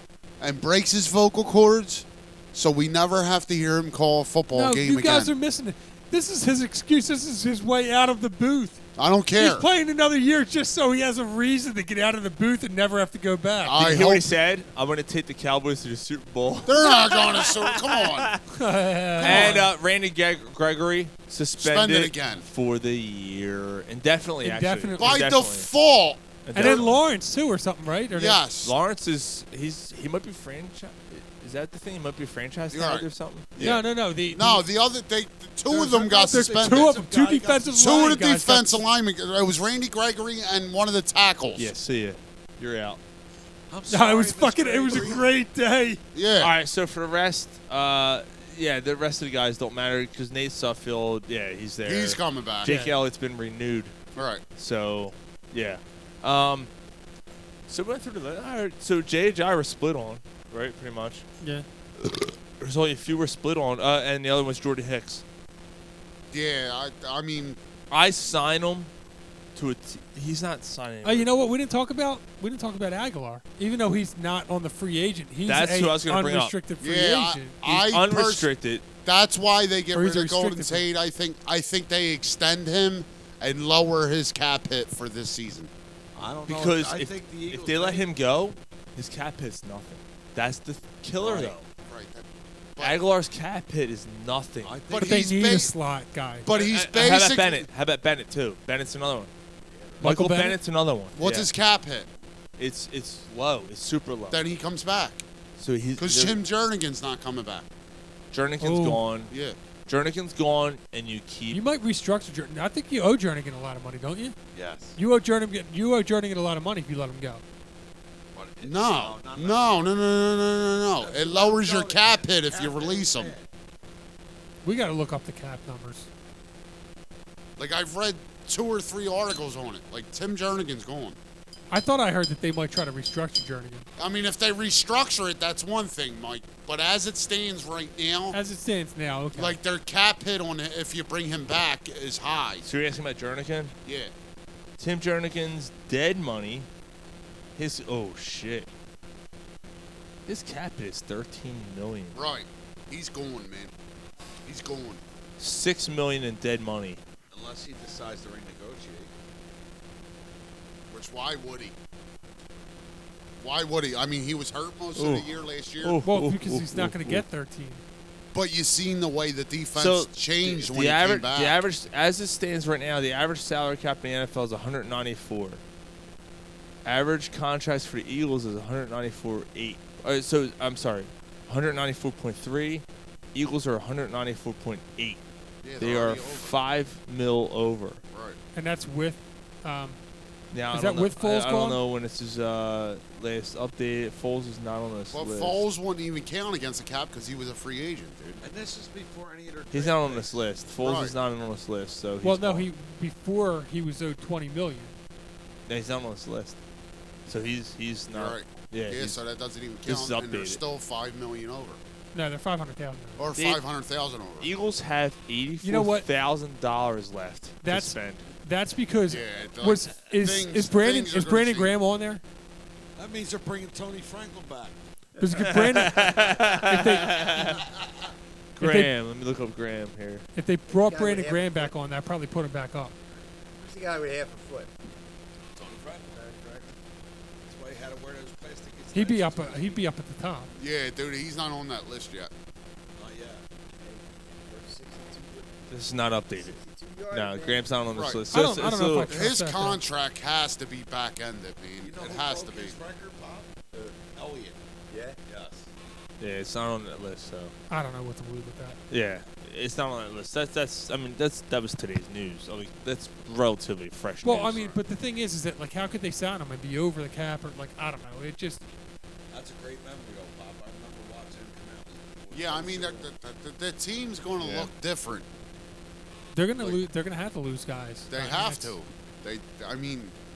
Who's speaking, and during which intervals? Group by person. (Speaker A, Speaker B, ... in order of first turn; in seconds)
Speaker A: 0.4-5.3, 9.0-9.7, 13.6-14.3, 16.6-18.4, 19.2-19.7, 21.6-22.4, 25.0-26.9, 28.1-28.8, 32.7-37.0, 37.8-41.7, 46.1-46.5, 51.9-52.7, 54.2-54.4, 66.3-67.6, 76.8-78.5, 79.0-85.7, 91.8-93.0, 94.9-95.7, 96.5-97.7, 101.2-102.1, 104.3-105.2, 106.0-107.7, 109.3-109.6, 118.6-123.3, 127.6-131.2, 134.0-138.4, 139.3-142.7, 143.8-144.1, 152.1-153.7, 154.4-155.0, 160.9-161.7, 163.4-166.0, 168.3-171.6, 185.6-186.6, 188.1-188.4, 195.1-198.4, 200.8-201.1, 208.1-211.8, 213.2-214.5, 219.1-221.8, 240.6-242.3, 247.9-248.2, 249.1-252.8, 272.3-275.3, 278.1-280.1
Speaker B: 4.5-8.8, 9.3-13.9, 18.5-19.7, 24.4-25.2, 26.5-28.4, 33.6-34.7, 36.0-38.9, 43.9-46.0, 52.6-52.9, 71.0-77.6, 79.9-80.8, 95.0-96.5, 100.0-100.6, 108.6-109.0, 111.5-114.4, 115.0-117.4, 124.6-126.1, 131.7-133.9, 138.3-139.6, 166.1-167.8, 188.6-190.0, 190.7-191.8, 202.2-204.9, 212.1-213.3, 215.6-216.1, 217.6-222.2, 225.2-226.1, 226.7-227.2, 228.6-228.9, 230.4-232.9, 238.9-240.5, 248.3-249.8, 257.7-258.8, 264.2-268.6, 276.3-278.8
Speaker C: 13.8-18.4, 19.2-25.7, 26.4-27.0, 28.6-33.5, 41.6-43.0, 46.4-54.0, 54.6-56.7, 57.7-61.2, 62.0-65.2, 67.9-68.9, 69.5-71.3, 75.5-76.5, 77.7-78.8, 86.5-91.7, 92.8-94.8, 96.5-99.3, 100.0-101.5, 102.6-104.5, 105.6-106.4, 108.3-109.3, 109.9-111.6, 142.7-143.7, 144.8-146.7, 147.6-148.7, 150.3-152.2, 155.4-157.0, 165.0-167.2, 169.8-175.6, 176.8-185.2, 185.8-188.0, 190.5-195.6, 199.7-202.7, 205.7-206.6, 207.3-209.2, 209.8-210.6, 214.4-218.3, 225.5-227.6, 228.6-230.3, 245.7-249.2, 256.2-257.5, 258.9-264.8, 274.4-274.7
Speaker D: 35.7-38.2, 43.7-45.3, 86.2-88.1, 91.2-91.6, 94.6-95.2, 114.5-115.0, 118.3-119.8, 121.0-123.5, 157.3-159.1, 198.4-200.4, 223.0-224.8, 227.2-227.7, 235.6-236.3, 237.5-239.8, 243.0-243.4, 251.8-254.6, 255.3-255.7, 269.3-273.1
Speaker E: 230.7-231.7, 233.6-234.7, 236.1-236.7, 243.8-247.8, 254.9-255.2